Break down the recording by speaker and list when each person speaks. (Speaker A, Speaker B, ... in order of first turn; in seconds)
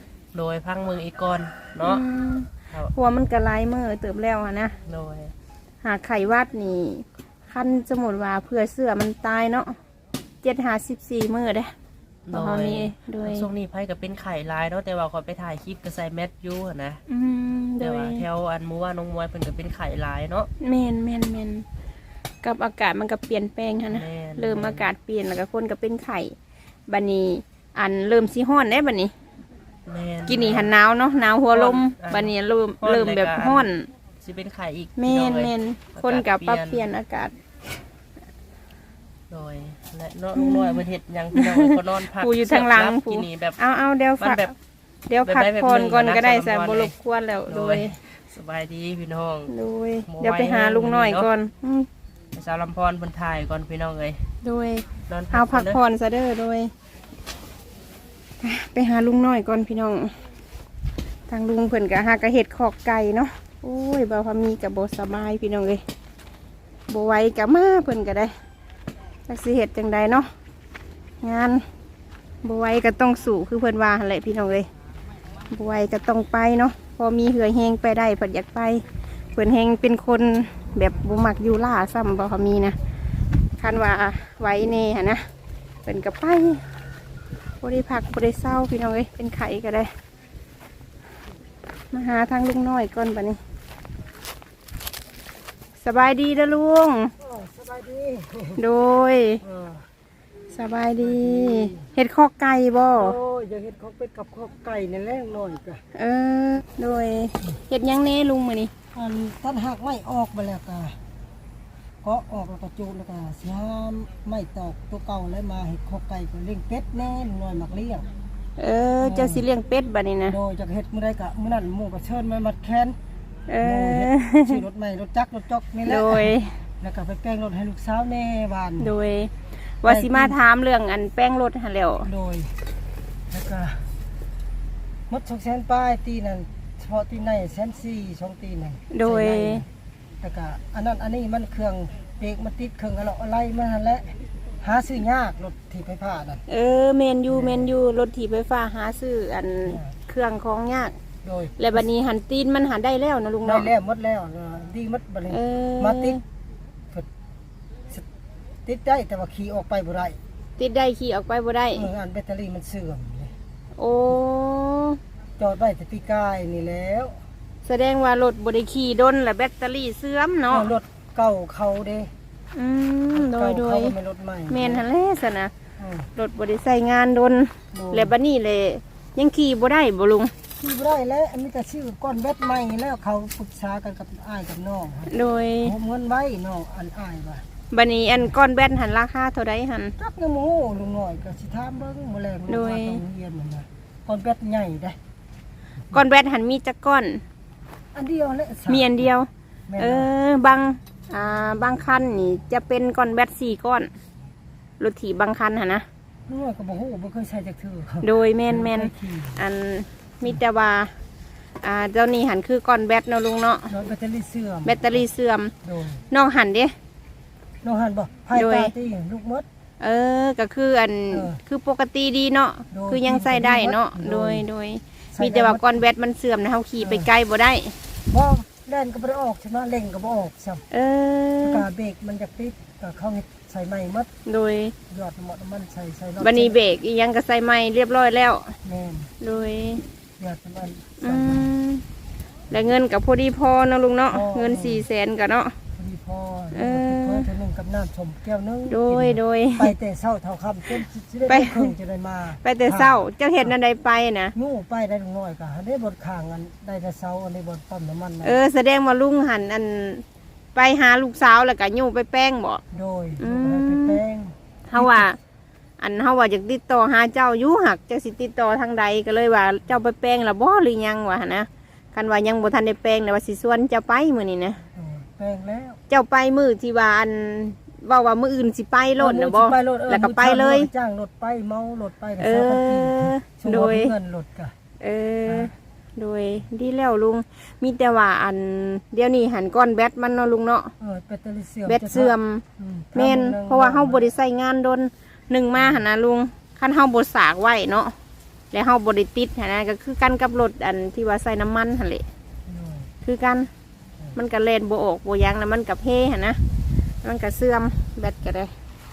Speaker A: 0.3-2.0, 4.8-5.3, 12.3-17.0, 17.8-20.5, 23.9-24.9, 29.9-30.7, 31.5-36.8, 39.3-43.6, 44.2-44.5, 45.2-46.9, 47.5-49.5, 50.1-51.3, 52.3-54.3, 55.1-55.8
Speaker B: 1.8-4.7, 5.8-9.8, 10.4-11.7, 12.3-13.5, 17.1-18.2, 20.6-21.6, 22.4-26.3, 26.9-29.1, 30.3-33.9, 35.0-37.3, 40.3-44.4, 45.1-47.9, 49.5-51.9, 54.4-56.7, 58.4-60.1, 61.3-65.8, 66.9-68.3, 69.3-70.3, 71.2-71.6, 72.4-74.7, 75.5-78.8, 79.3-82.7, 83.6-85.2, 85.8-86.7, 87.6-89.9, 91.9-93.4, 95.8-97.1, 98.6-99.4, 100.5-103.1, 105.9-108.7, 118.6-120.4, 123.5-124.6, 125.8-126.5, 128.8-132.1, 138.9-139.6, 146.5-151.0, 151.6-153.7, 155.3-156.2, 160.6-161.9, 163.8-165.0, 167.6-170.7, 172.5-173.9, 174.5-175.5, 176.2-180.3, 185.1-185.7, 187.7-189.9, 192.5-193.0, 195.9-197.2, 198.7-203.9, 204.8-205.8, 208.0-210.9, 211.6-213.7, 214.6-215.5, 216.1-216.7, 218.3-218.7, 219.8-227.8, 230.7-231.6, 234.3-234.7, 236.2-238.5, 239.2-239.8, 241.0-241.8, 242.5-245.6, 246.5-247.3, 248.7-249.7, 251.3-251.7, 252.4-254.3, 258.2-260.0, 260.5-262.6, 263.2-264.0, 264.7-265.2, 265.8-274.6, 275.9-280.7, 282.2-283.9, 284.8-290.7, 291.7-297.9, 298.5-302.1, 303.0-303.5, 304.1-306.4, 307.0-308.5
Speaker C: 97.2-98.6, 99.4-99.9, 101.0-101.8, 103.0-105.8, 108.9-111.0, 112.0-118.1, 119.0-119.4, 120.2-123.0, 123.6-128.9, 129.8-130.4, 132.0-132.6, 133.3-133.9, 135.1-139.7, 140.2-146.4, 147.3-147.7, 149.6-149.9, 151.2-151.8, 153.4-156.2, 158.6-160.2, 161.7-163.3, 165.4-167.2, 170.5-172.1, 173.1-174.8, 175.8-176.1, 177.7-178.1, 180.6-187.4, 190.0-195.0, 197.9-199.1, 199.7-200.1, 206.3-209.4, 213.7-215.1, 215.6-216.0, 217.6-219.4, 221.1-221.4, 222.7-224.5, 225.1-225.8, 226.8-227.1, 228.1-230.6, 231.4-234.1, 234.9-236.6, 238.6-239.1, 240.2-241.5, 244.1-244.8, 245.7-253.5, 254.3-258.4, 262.7-265.1, 274.6-275.8, 279.0-284.5, 285.2-285.5, 290.8-294.1, 295.6-295.8, 302.5-302.9